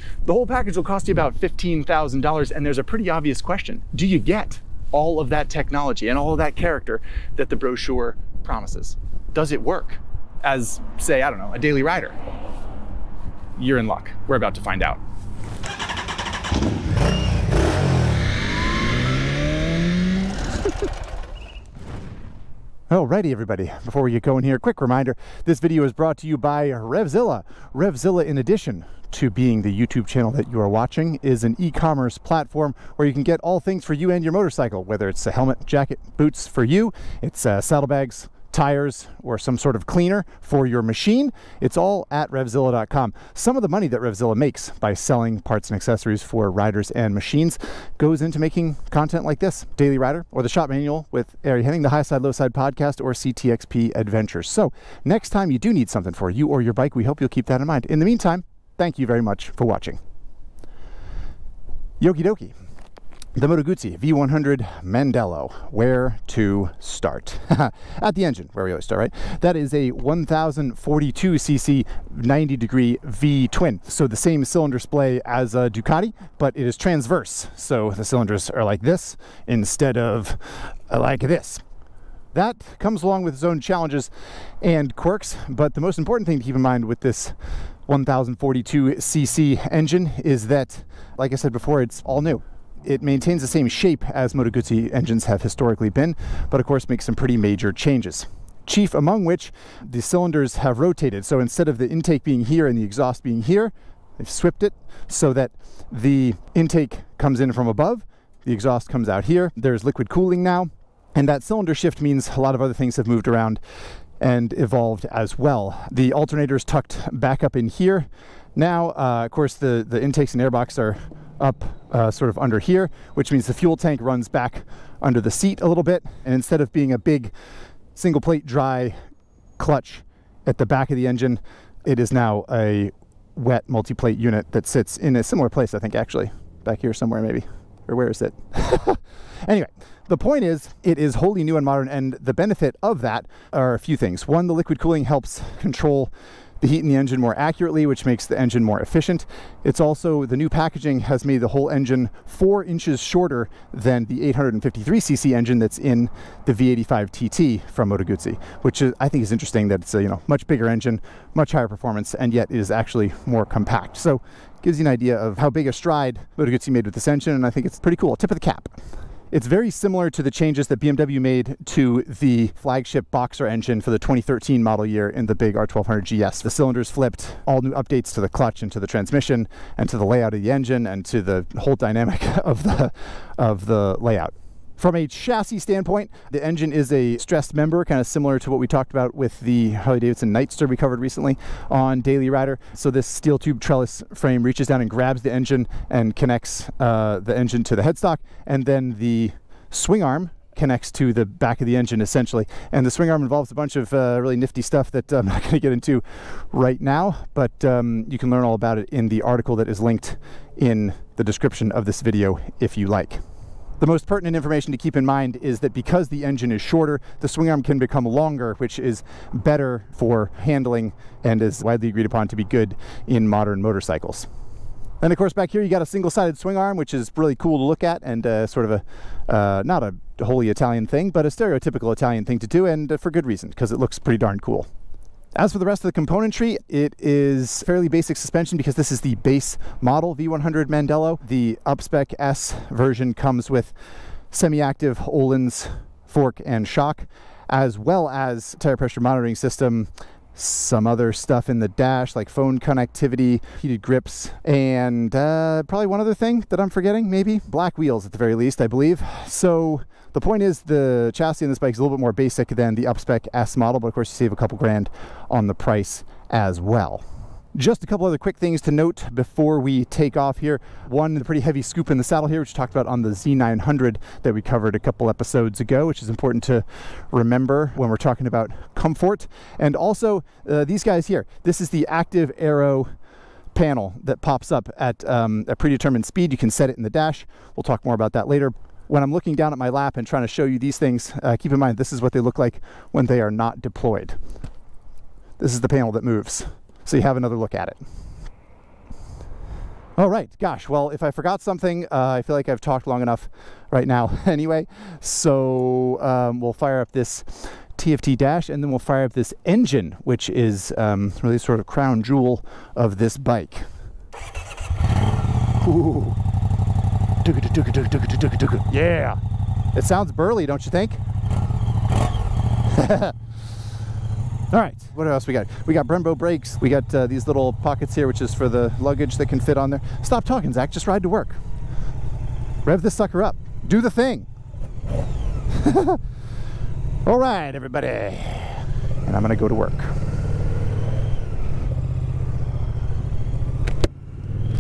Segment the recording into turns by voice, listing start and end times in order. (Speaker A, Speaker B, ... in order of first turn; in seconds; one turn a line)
Speaker A: 0.2-12.1
Speaker A: 13.6-15.0
Speaker A: 22.9-60.0
Speaker A: 62.0-62.5
Speaker A: 63.4-81.6
Speaker A: 82.3-84.1
Speaker A: 84.6-87.3
Speaker A: 87.9-113.6
Speaker A: 114.2-127.3
Speaker A: 127.9-129.0
Speaker A: 129.6-168.7
Speaker A: 169.3-213.2
Speaker A: 213.8-224.3
Speaker A: 225.0-234.7
Speaker A: 235.3-243.7
Speaker A: 244.3-282.9
Speaker A: 283.5-294.2
Speaker A: 295.4-297.8
Speaker A: 300.0-313.7
Speaker A: 315.6-316.2
Speaker A: 317.2-319.2
Speaker A: 319.7-321.0
Speaker A: 322.7-323.1
Speaker A: 324.5-331.4
Speaker A: 332.6-334.3
Speaker A: 335.5-336.0
Speaker A: 337.0-339.9